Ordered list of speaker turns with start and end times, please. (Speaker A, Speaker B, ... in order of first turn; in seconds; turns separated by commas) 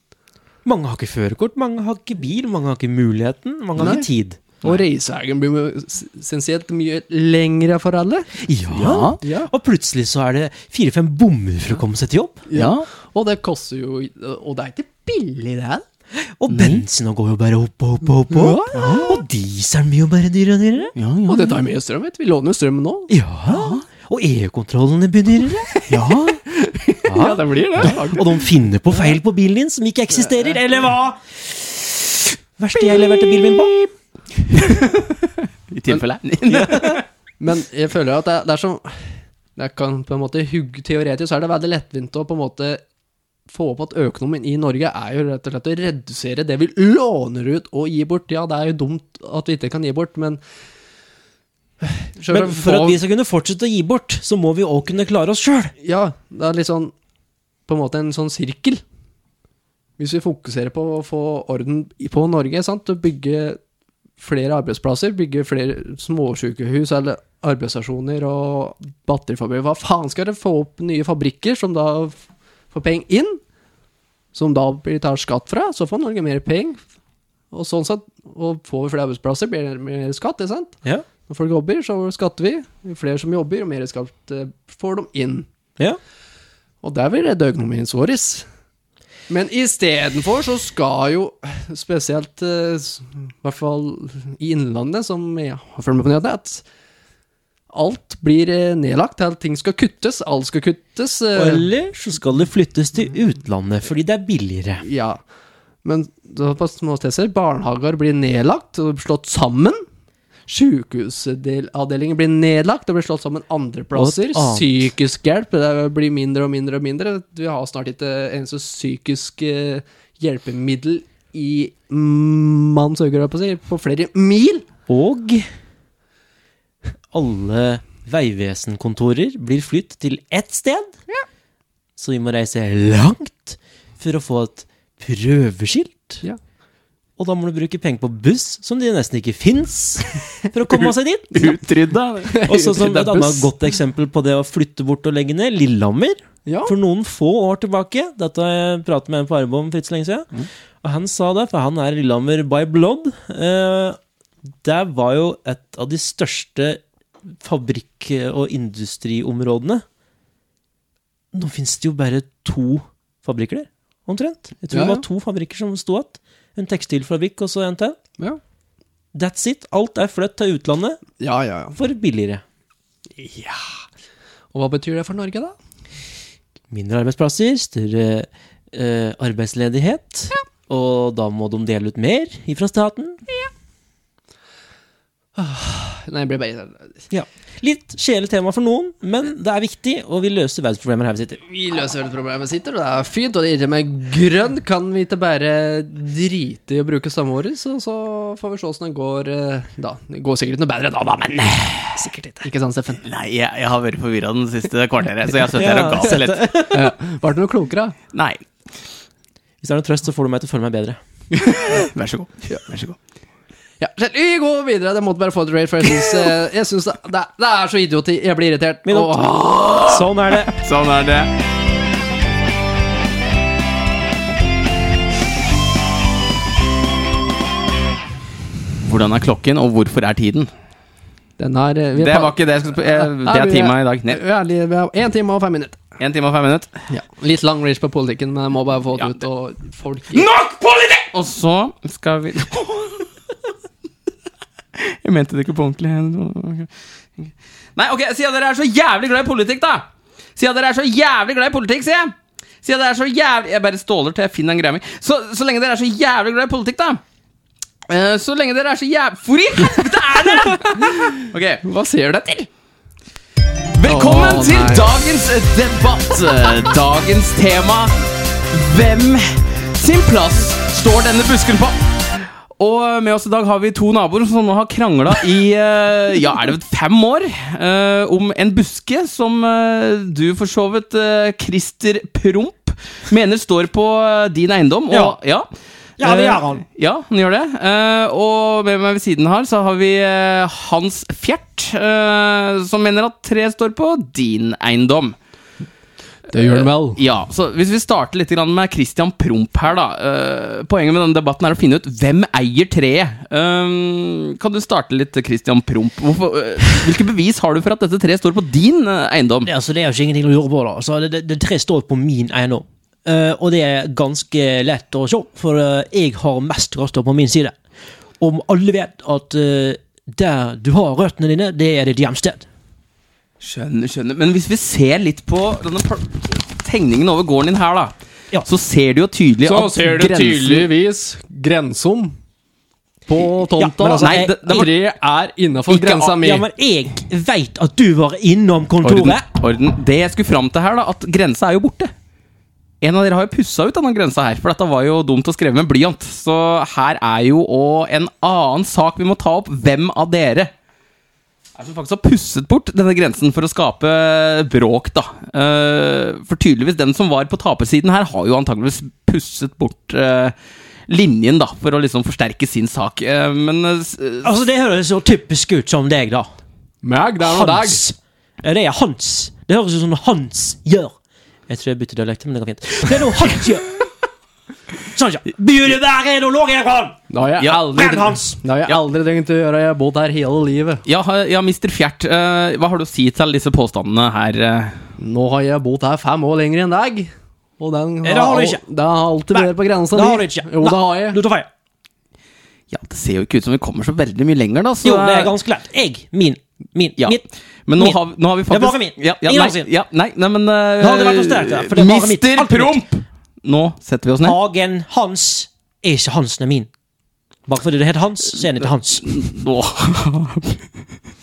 Speaker A: 0.6-4.5, Speaker B: 3.8-4.0, Speaker B: 4.6-8.4, Speaker A: 8.4-12.4, Speaker C: 8.7-9.2, Speaker B: 9.2-9.5, Speaker B: 12.5-15.8, Speaker C: 12.5-12.9, Speaker A: 16.1-20.9, Speaker C: 16.5-16.8, Speaker B: 18.3-19.1, Speaker C: 18.7-19.2, Speaker C: 20.9-21.6, Speaker B: 21.3-23.1, Speaker A: 23.1-25.7, Speaker C: 23.5-23.8, Speaker C: 25.9-26.4, Speaker B: 26.5-28.5, Speaker A: 27.1-33.7, Speaker C: 34.5-37.0, Speaker A: 36.5-37.0, Speaker B: 37.4-39.0, Speaker B: 39.5-42.8, Speaker B: 43.5-50.4, Speaker B: 51.8-53.0, Speaker A: 52.3-55.7, Speaker B: 55.8-56.9, Speaker B: 57.7-58.8, Speaker B: 60.0-63.6, Speaker B: 64.2-72.2, Speaker B: 72.7-73.4, Speaker B: 74.3-76.8, Speaker B: 77.5-85.5, Speaker B: 86.8-88.4, Speaker B: 89.3-96.6, Speaker B: 97.7-101.7, Speaker A: 101.3-104.8, Speaker B: 104.8-105.2, Speaker B: 105.8-109.8, Speaker B: 110.5-124.7, Speaker A: 113.9-114.9, Speaker A: 124.9-125.5, Speaker A: 127.1-130.9, Speaker A: 132.0-136.2, Speaker A: 137.2-141.6, Speaker C: 141.3-143.2, Speaker B: 142.3-143.4, Speaker A: 142.4-150.3, Speaker B: 146.4-146.7, Speaker A: 150.8-154.0, Speaker A: 154.6-156.8, Speaker A: 157.4-159.8, Speaker A: 161.3-168.0, Speaker B: 164.7-165.0, Speaker A: 169.1-171.0, Speaker B: 171.2-171.8, Speaker A: 171.7-172.4, Speaker B: 173.2-173.8, Speaker B: 174.5-175.5, Speaker A: 176.7-183.2, Speaker B: 185.3-187.0, Speaker A: 187.1-191.4, Speaker B: 191.5-203.0, Speaker C: 203.0-206.9, Speaker A: 205.5-206.9, Speaker B: 206.7-207.9, Speaker C: 208.1-208.4, Speaker A: 209.6-211.0, Speaker C: 211.3-213.0, Speaker B: 213.8-219.9, Speaker A: 218.8-220.5, Speaker C: 219.6-221.3, Speaker C: 228.8-230.5, Speaker B: 231.4-235.8, Speaker C: 232.0-234.2, Speaker C: 236.0-236.7, Speaker B: 236.9-240.3, Speaker C: 240.1-243.1, Speaker C: 244.8-246.7, Speaker C: 247.2-257.0, Speaker C: 257.9-261.6, Speaker B: 260.4-262.5, Speaker C: 263.7-267.9, Speaker B: 263.9-264.9, Speaker C: 268.5-285.5, Speaker A: 284.9-285.2, Speaker A: 286.0-286.6, Speaker C: 286.0-295.2, Speaker C: 296.3-309.5, Speaker B: 296.3-297.0, Speaker A: 309.4-317.6, Speaker A: 318.2-322.5, Speaker C: 323.4-330.7, Speaker B: 329.4-332.1, Speaker B: 333.1-336.4, Speaker A: 333.6-334.7, Speaker C: 333.9-334.7, Speaker C: 335.7-336.1, Speaker A: 336.1-339.2, Speaker C: 338.8-341.9, Speaker C: 342.8-350.5, Speaker C: 351.6-360.4, Speaker C: 360.9-364.3, Speaker A: 364.2-366.3, Speaker B: 366.8-367.8, Speaker A: 367.2-370.9, Speaker A: 371.5-373.9, Speaker A: 374.8-378.4, Speaker B: 377.1-380.8, Speaker C: 380.9-384.8, Speaker B: 385.0-391.2, Speaker A: 388.0-388.6, Speaker A: 389.3-391.5, Speaker C: 392.7-395.3, Speaker A: 394.8-397.2, Speaker C: 397.0-404.4, Speaker A: 398.5-399.7, Speaker A: 400.8-402.8, Speaker A: 404.2-406.7, Speaker A: 407.5-409.1, Speaker C: 409.0-410.6